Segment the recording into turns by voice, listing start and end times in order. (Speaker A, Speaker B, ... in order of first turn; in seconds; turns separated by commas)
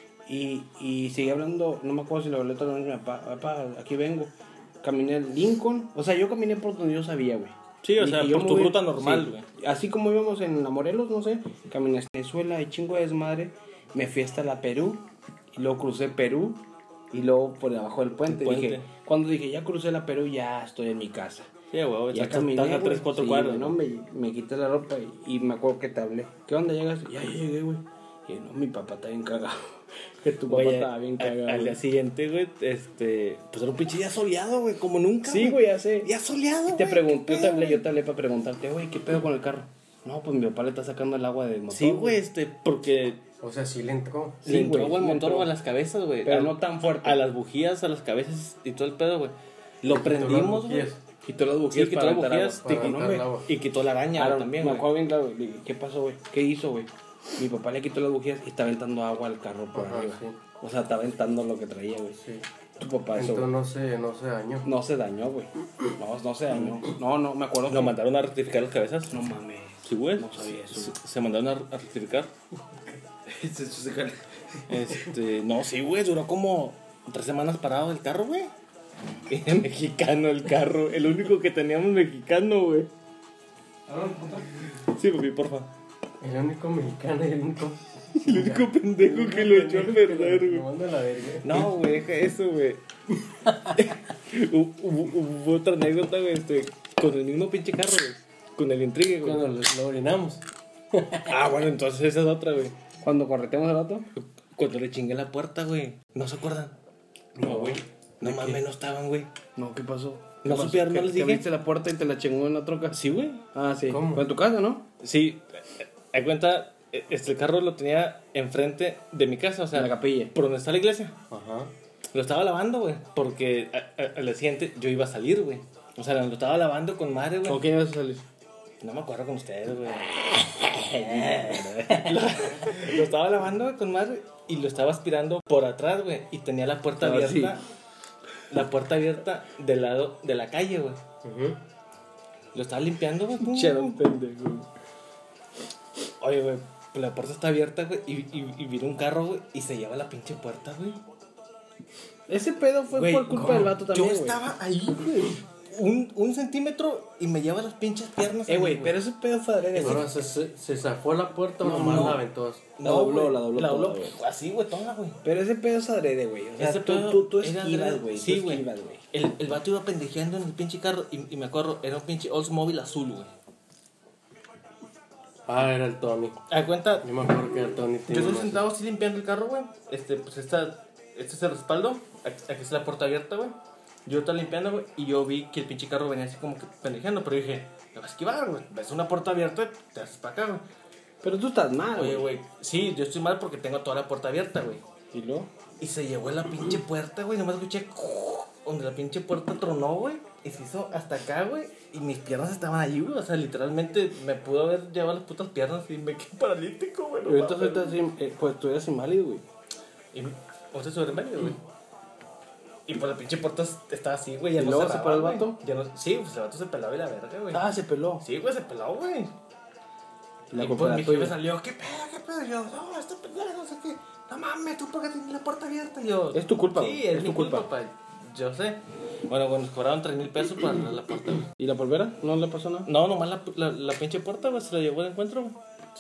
Speaker A: 0.3-21.5, Speaker B: 7.8-9.4, Speaker B: 18.3-18.9, Speaker B: 21.7-23.8, Speaker A: 22.1-31.8, Speaker B: 30.5-37.9, Speaker A: 35.2-36.1, Speaker A: 36.7-42.2, Speaker B: 41.7-43.2, Speaker C: 43.4-44.5, Speaker A: 44.5-45.5, Speaker B: 44.5-50.9, Speaker A: 46.2-47.2, Speaker C: 49.9-51.0, Speaker A: 51.2-53.3, Speaker B: 51.7-54.9, Speaker C: 52.6-53.5, Speaker A: 54.1-62.2, Speaker C: 59.7-60.4, Speaker A: 62.8-63.5, Speaker C: 63.1-64.7, Speaker A: 64.6-68.0, Speaker B: 67.7-69.2, Speaker A: 69.1-71.0, Speaker B: 69.8-72.3, Speaker A: 73.3-74.7, Speaker B: 74.7-78.5, Speaker B: 79.3-82.9, Speaker A: 83.9-84.5, Speaker B: 84.6-85.7, Speaker C: 86.2-91.7, Speaker B: 88.1-90.7, Speaker B: 91.4-92.8, Speaker B: 93.6-99.5, Speaker C: 99.2-101.4, Speaker B: 101.3-102.8, Speaker A: 103.0-104.1, Speaker B: 104.2-106.8, Speaker A: 107.4-108.6, Speaker B: 107.5-109.3, Speaker A: 109.6-113.0, Speaker B: 110.4-111.5, Speaker B: 112.9-113.4, Speaker A: 113.5-114.9, Speaker C: 113.9-114.3, Speaker B: 115.0-121.2, Speaker A: 119.7-120.3, Speaker C: 121.3-121.7, Speaker B: 122.1-127.6, Speaker A: 127.5-128.2, Speaker B: 128.8-130.1, Speaker A: 129.9-133.0, Speaker B: 130.9-137.6, Speaker A: 137.0-137.6, Speaker B: 138.5-141.0, Speaker C: 141.2-141.6, Speaker B: 142.5-144.0, Speaker A: 143.4-144.7, Speaker B: 146.2-151.0, Speaker A: 152.3-154.4, Speaker B: 152.9-159.0, Speaker A: 158.5-160.1, Speaker B: 159.7-160.1, Speaker C: 159.8-162.7, Speaker A: 161.6-162.2, Speaker B: 161.8-162.2, Speaker B: 162.8-165.2, Speaker A: 162.8-164.2, Speaker A: 165.2-169.1, Speaker B: 166.6-173.3, Speaker C: 175.5-176.4, Speaker B: 176.5-177.1, Speaker C: 177.0-178.7, Speaker B: 178.1-190.6, Speaker A: 191.2-192.3, Speaker B: 191.9-194.8, Speaker A: 195.1-195.5, Speaker B: 195.8-208.0, Speaker A: 207.2-209.4, Speaker B: 210.1-211.6, Speaker B: 212.9-217.7, Speaker A: 214.6-215.6, Speaker A: 217.5-218.2, Speaker B: 218.2-219.3, Speaker A: 220.5-221.3, Speaker B: 220.6-231.5, Speaker A: 226.3-227.7, Speaker A: 231.6-232.9, Speaker B: 232.9-235.6